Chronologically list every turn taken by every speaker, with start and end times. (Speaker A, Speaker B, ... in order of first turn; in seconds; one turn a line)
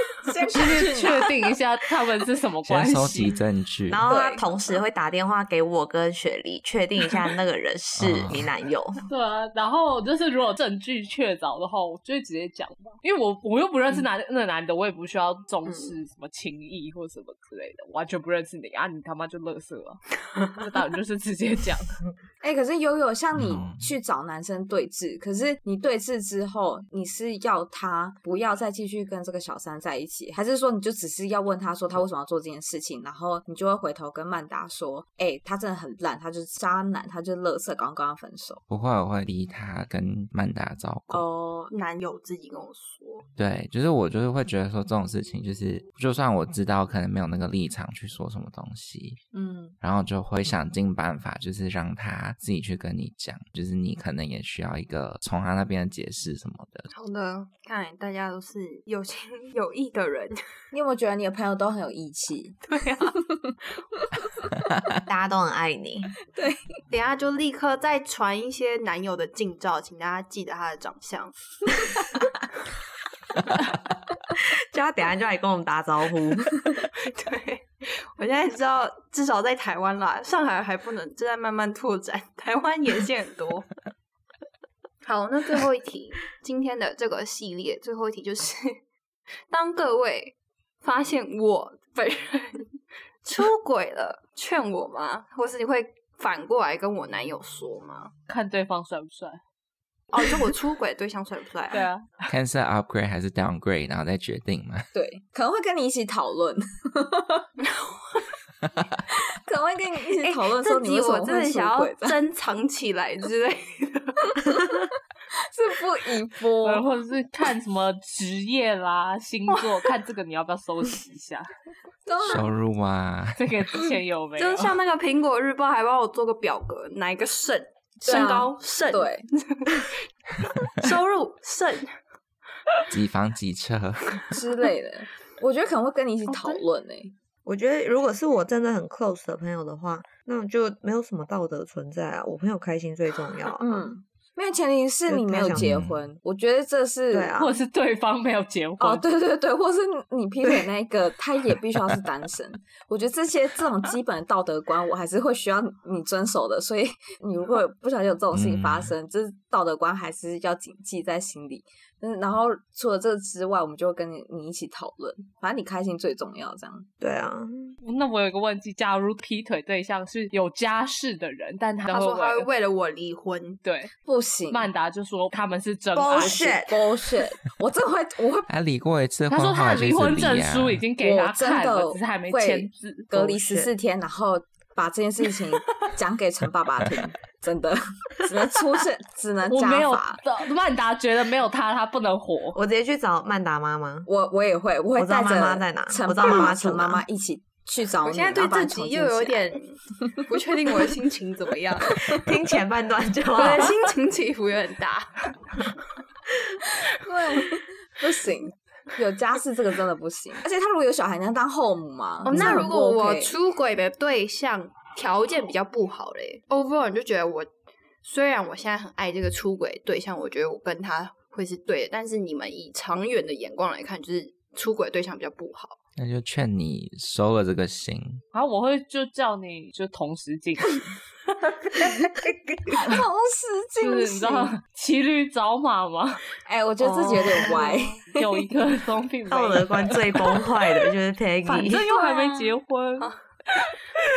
Speaker A: 0.2-1.5
Speaker B: 0.5-3.4
Speaker C: 2.6-4.0
Speaker D: 3.9-9.0
Speaker A: 4.0-4.5
Speaker C: 8.0-8.4
Speaker B: 9.1-22.0
Speaker E: 15.7-15.9
Speaker A: 22.4-38.6
Speaker C: 23.4-23.9
Speaker C: 38.7-41.2
Speaker A: 41.1-41.7
Speaker E: 41.7-43.3
Speaker C: 43.4-49.2
Speaker A: 49.3-49.8
Speaker C: 49.8-56.9
Speaker E: 56.9-60.4
Speaker A: 60.7-62.6
Speaker E: 62.6-63.2
Speaker A: 63.2-63.5
Speaker D: 65.0-66.2
Speaker A: 66.3-66.6
Speaker E: 66.9-71.3
Speaker D: 74.4-76.7
Speaker E: 77.0-83.7
Speaker E: 85.0-88.8
Speaker E: 89.5-92.7
Speaker E: 93.2-98.1
Speaker B: 98.3-99.4
Speaker E: 100.1-101.9
Speaker B: 101.7-102.3
Speaker C: 102.3-104.9
Speaker A: 104.9-107.5
Speaker E: 107.6-108.3
Speaker A: 109.1-112.2
Speaker E: 110.2-114.7
Speaker A: 115.4-116.8
Speaker B: 116.6-121.5
Speaker A: 122.0-122.5
Speaker C: 122.2-123.4
Speaker B: 123.3-124.7
Speaker E: 124.4-132.0
Speaker A: 128.0-129.3
Speaker C: 132.9-134.3
Speaker A: 134.3-137.1
Speaker E: 136.3-136.6
Speaker D: 137.4-143.9
Speaker A: 143.6-147.3
Speaker D: 145.1-145.7
Speaker C: 145.5-146.0
Speaker D: 147.1-147.5
Speaker B: 147.4-149.0
Speaker A: 148.8-166.9
Speaker C: 158.3-158.9
Speaker D: 167.0-167.8
Speaker B: 167.8-172.5
Speaker E: 171.9-173.6
Speaker B: 173.6-173.9
Speaker A: 174.0-174.7
Speaker B: 174.5-176.6
Speaker D: 175.9-176.9
Speaker A: 176.2-178.5
Speaker C: 178.5-180.8
Speaker B: 179.3-183.1
Speaker A: 181.0-190.2
Speaker D: 183.1-183.7
Speaker B: 189.5-192.6
Speaker D: 192.5-194.1
Speaker A: 194.1-199.5
Speaker D: 194.9-197.0
Speaker E: 198.0-202.2
Speaker D: 202.1-203.8
Speaker E: 203.3-205.7
Speaker A: 206.9-213.3
Speaker E: 212.2-217.5
Speaker D: 212.3-212.6
Speaker E: 218.0-225.8
Speaker C: 225.9-228.2
Speaker B: 228.3-230.8
Speaker E: 231.6-232.1
Speaker A: 232.8-234.5
Speaker B: 233.8-236.2
Speaker A: 236.4-238.4
Speaker E: 236.8-238.0
Speaker B: 238.1-240.0
Speaker D: 239.3-241.8
Speaker B: 241.4-243.7